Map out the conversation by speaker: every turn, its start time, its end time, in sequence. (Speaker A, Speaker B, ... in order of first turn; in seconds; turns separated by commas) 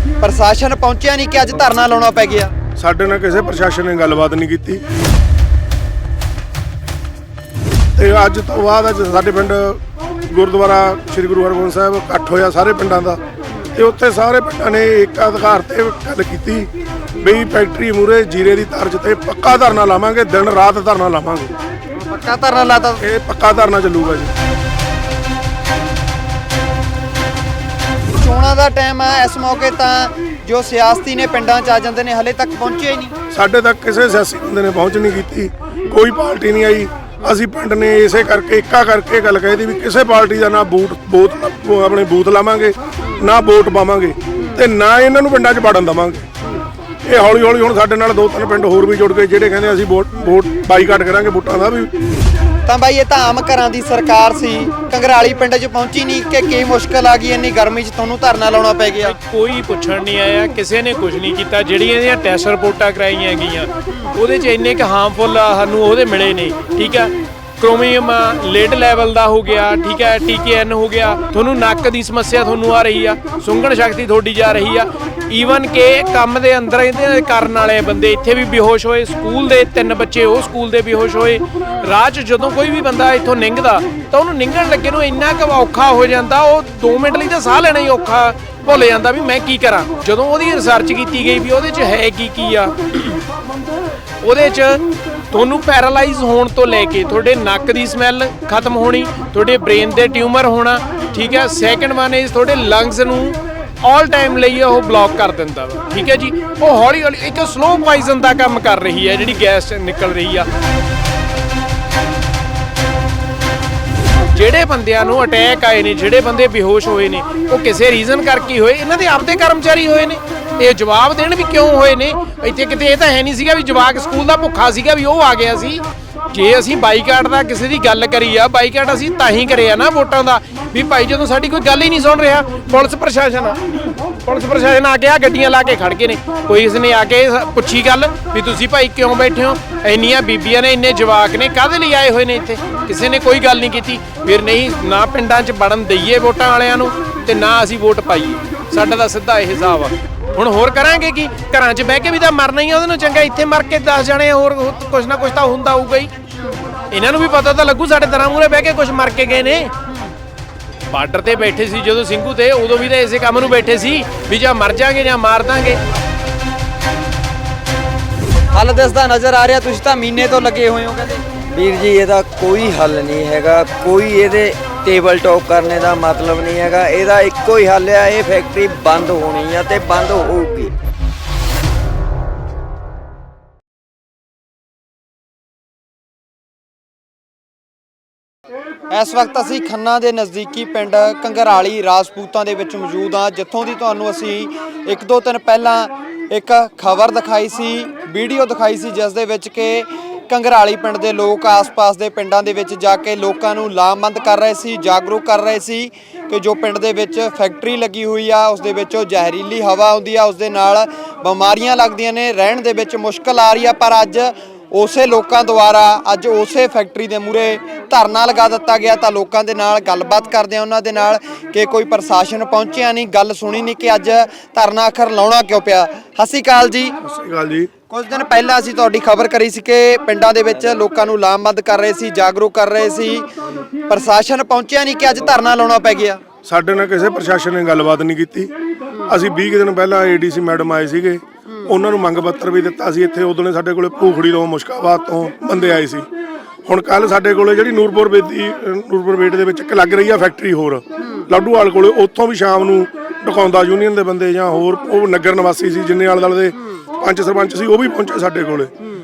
Speaker A: 0.2-2.5, Speaker B: 2.8-4.8, Speaker B: 8.0-13.2, Speaker B: 13.7-21.5, Speaker A: 22.0-23.0, Speaker B: 23.0-24.3, Speaker A: 28.2-33.1, Speaker B: 33.3-46.3, Speaker B: 47.0-51.9, Speaker A: 52.6-59.1, Speaker C: 59.0-93.2, Speaker C: 94.2-110.5, Speaker C: 114.3-156.1, Speaker C: 156.9-159.7, Speaker C: 160.9-165.8, Speaker A: 168.5-171.2, Speaker D: 171.5-180.7, Speaker A: 188.9-226.9, Speaker B: 227.0-227.7, Speaker A: 227.9-233.2, Speaker A: 233.9-236.2, Speaker B: 236.4-238.5, Speaker B: 239.1-246.1, Speaker B: 246.7-258.7